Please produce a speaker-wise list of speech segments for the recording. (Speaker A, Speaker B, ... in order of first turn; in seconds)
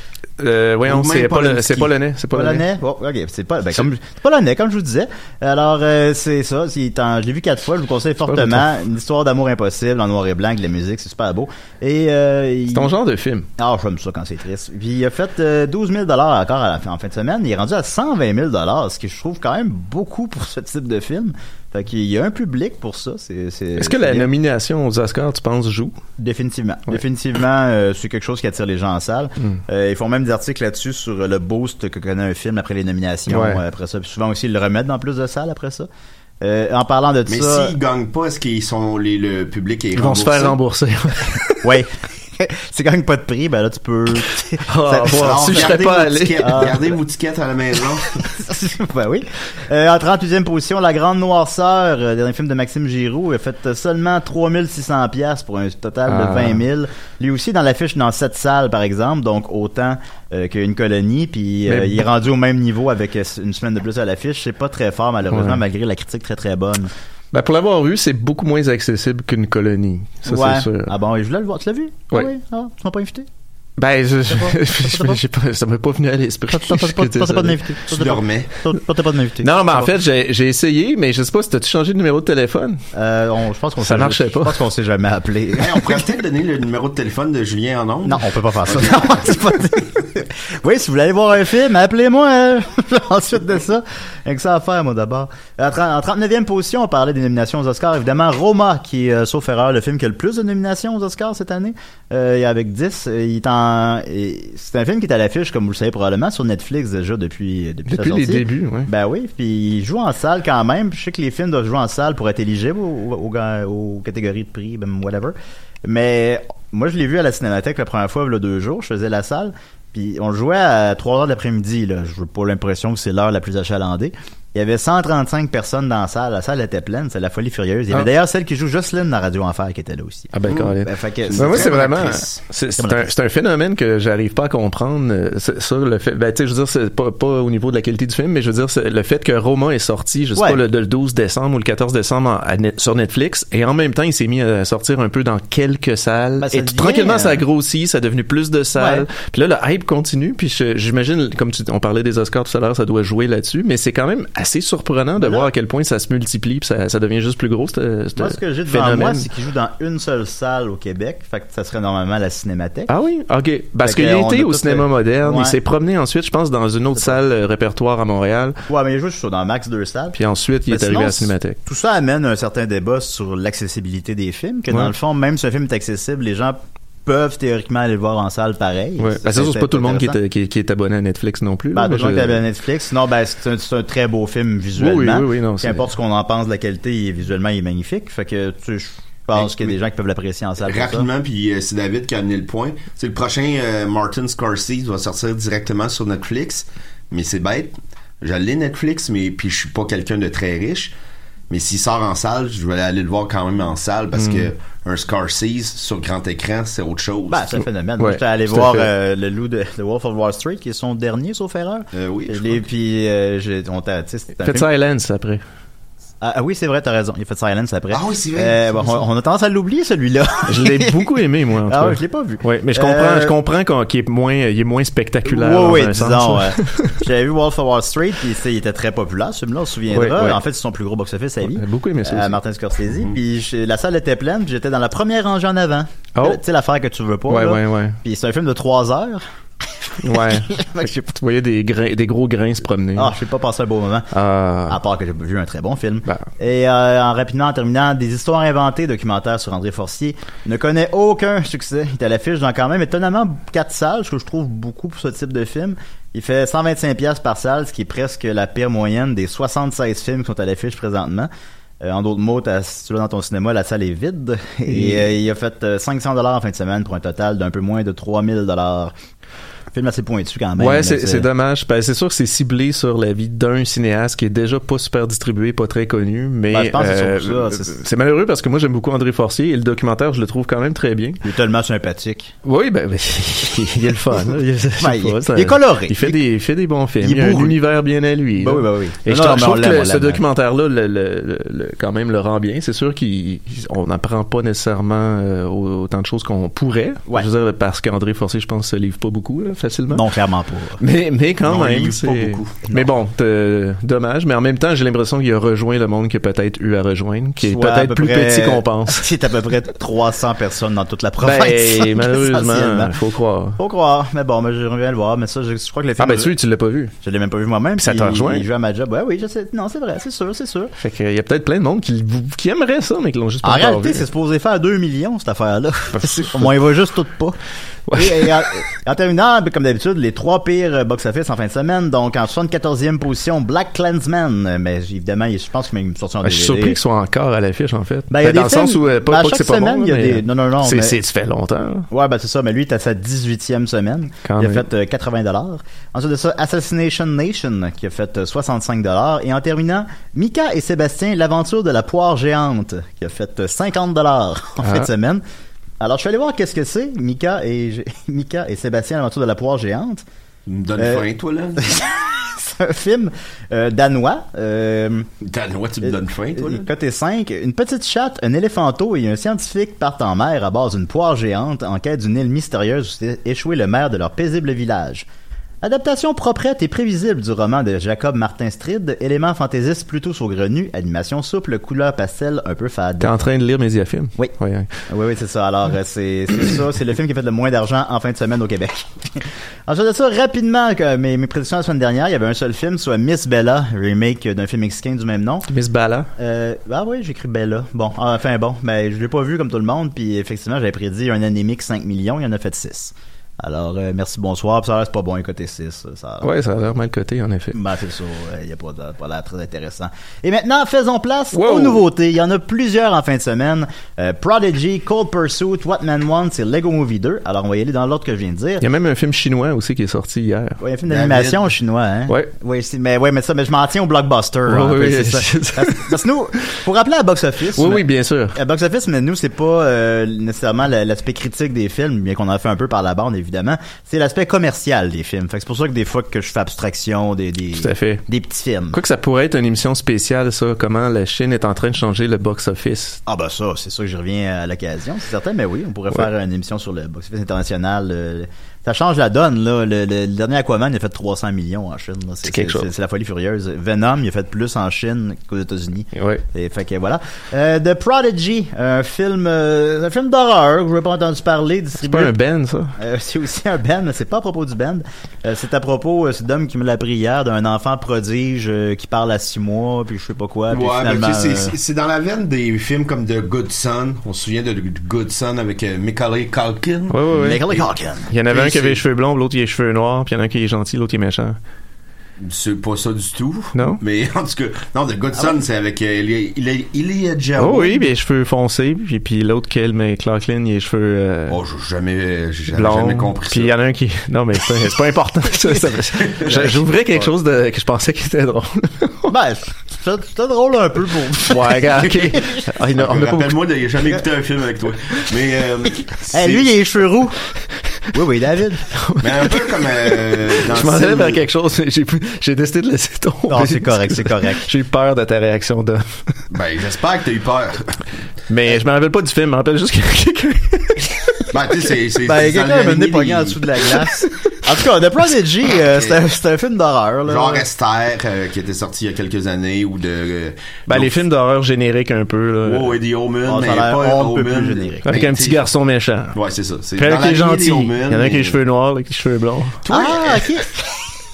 Speaker A: 0.4-2.6, 8.3-8.7, 12.7-13.5, 23.8-26.0, 33.3-33.6, 40.0-41.7, 44.6-46.7, 56.1-56.6, 61.7-62.1, 65.3-65.6, 67.3-70.9, 73.8-77.6, 79.4-82.8, 83.8-84.6, 107.9-108.9, 130.3-159.3, 162.9-168.6, 170.2-171.6, 179.0-182.4, 184.8-185.9, 204.2-204.5, 208.0-208.9, 214.4-215.4, 220.5-227.0, 229.9-230.4, 231.4-232.4, 236.2-236.4, 237.3-238.0, 240.0-243.1, 244.1-244.8, 264.7-265.1, 270.6-281.2, 282.4-300.1, 300.8-309.1, 311.2-313.6, 316.0-316.9, 317.8-318.5, 320.8-324.0, 325.9-326.5, 327.9-328.3, 336.2-341.9, 344.2-344.7, 354.6-354.9, 383.0-384.7, 395.5-396.1, 406.2-407.6, 411.3-411.8, 418.6-420.6, 424.5-426.6, 427.6-428.4, 437.5-438.0, 438.7-443.0, 452.2-452.7, 455.9-456.2, 461.8-462.8, 476.9-477.4, 478.1-481.4, 483.6-483.8, 487.4-491.4, 492.5-499.1, 501.3-503.4, 508.7-516.1, 518.3-521.3, 530.7-532.7, 534.9-536.1, 536.8-539.6
Speaker B: 0.9-1.9, 37.3-40.6, 45.2-48.2, 77.9-78.5, 85.6-89.3, 130.5-132.4, 189.4-189.7, 190.7-200.9, 201.5-207.6, 211.9-212.6, 217.9-219.0, 301.4-302.6, 360.5-361.7, 365.2-366.7, 420.9-421.4, 470.5-477.6, 478.3-478.8, 482.2-487.9, 491.3-493.5, 496.0-496.6, 502.8-506.5, 509.0-511.2, 516.3-517.8, 521.3-523.4, 525.7-526.0, 527.1-531.0, 532.5-535.5, 536.1-538.4, 539.6-540.4
Speaker C: 2.3-12.9, 13.6-24.3, 26.2-35.9, 36.4-37.8, 41.6-45.8, 46.4-46.9, 48.2-66.9, 70.3-73.3, 74.3-75.2, 76.5-80.0, 82.9-86.1, 88.0-115.3, 115.8-132.1, 132.8-133.1, 140.4-140.6, 146.4-147.4, 148.8-149.1, 155.2-155.5, 158.2-162.9, 163.8-165.6, 166.9-167.2, 168.7-180.2, 181.7-191.1, 207.3-214.7, 216.2-221.1, 221.7-223.3, 225.2-239.2, 239.8-241.1, 242.9-244.1, 244.7-261.3, 261.8-268.9, 269.7-271.3, 276.5-277.8, 281.2-282.3, 284.8-286.2, 287.0-287.6, 288.4-290.2, 299.9-300.8, 307.4-313.0, 313.6-316.3, 317.0-320.7, 323.4-327.4, 327.9-336.8, 338.1-341.0, 341.9-355.2, 355.8-360.1, 360.8-361.1, 361.6-365.1, 365.8-375.1, 375.6-383.3, 384.9-395.5, 396.2-406.3, 407.5-418.6, 420.6-438.8, 443.1-462.1, 462.8-471.6, 477.1-478.1, 499.1-502.5, 506.1-507.2, 507.9-508.7, 513.3-514.5, 522.0-527.5, 533.2-534.9, 539.7-540.7